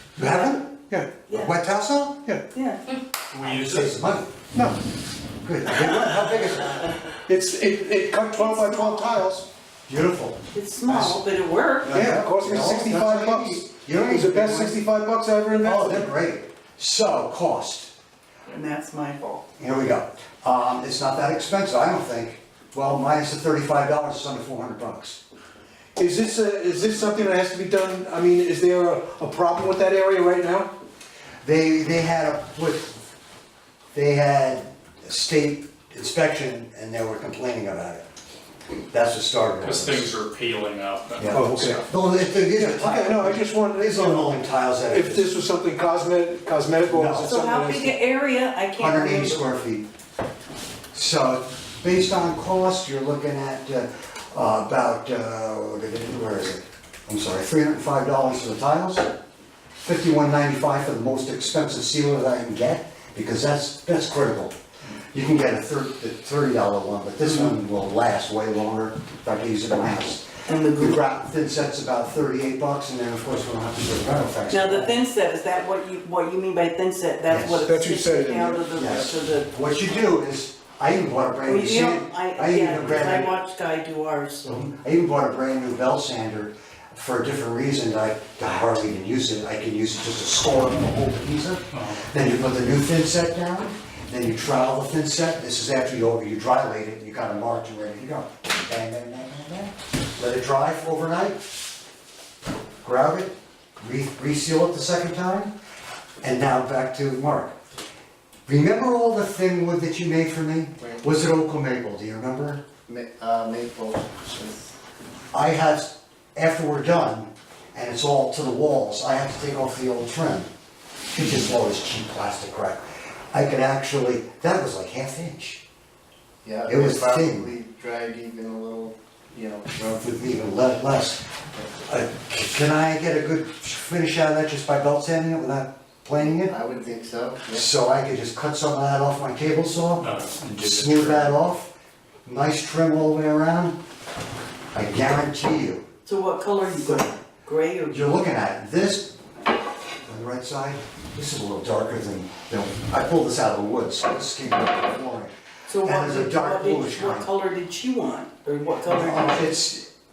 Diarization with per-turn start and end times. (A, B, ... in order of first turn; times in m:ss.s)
0:00.2-0:00.7 A
0:01.3-0:02.2 A
0:02.5-0:02.8 B
0:03.3-0:03.9 C
0:03.4-0:04.3 A
0:05.4-0:07.0 A
0:07.3-0:09.5 D
0:08.3-0:09.1 B
0:09.9-0:11.2 A
0:10.5-0:11.9 B
0:11.8-0:14.8 A
0:11.9-0:16.1 D
0:15.5-0:17.9 A
0:18.5-0:19.4 B
0:19.6-0:25.2 A
0:26.0-0:30.7 D
0:31.4-0:33.0 A
0:33.9-0:38.0 A
0:38.9-0:40.1 A
0:39.6-0:41.9 C
0:41.2-0:45.3 A
0:41.3-0:41.8 D
0:42.6-0:48.0 D
0:46.8-0:47.4 A
0:47.2-0:49.4 B
0:48.8-0:49.9 A
0:50.9-0:59.1 A
0:59.8-1:04.5 A
1:05.1-1:15.0 A
1:10.5-1:11.0 B
1:14.5-1:19.5 B
1:17.3-1:17.6 A
1:17.6-1:18.7 D
1:18.8-1:23.4 A
1:21.5-1:24.6 B
1:24.4-1:41.4 A
1:31.7-1:32.1 C
1:42.8-1:45.5 A
1:46.2-1:47.6 A
1:48.5-1:52.6 A
1:52.9-1:54.7 E
1:55.3-2:00.5 A
2:01.1-2:05.6 A
2:06.4-2:10.0 E
2:06.7-2:07.5 A
2:09.9-2:11.2 A
2:11.8-2:16.6 A
2:16.4-2:17.7 E
2:17.5-2:20.1 A
2:20.0-2:21.3 C
2:20.6-2:21.7 A
2:22.3-2:23.8 A
2:24.7-2:25.9 A
2:26.0-2:28.1 B
2:27.9-2:29.1 A
2:30.0-2:37.3 A
2:35.7-2:39.4 B
2:38.8-2:39.9 A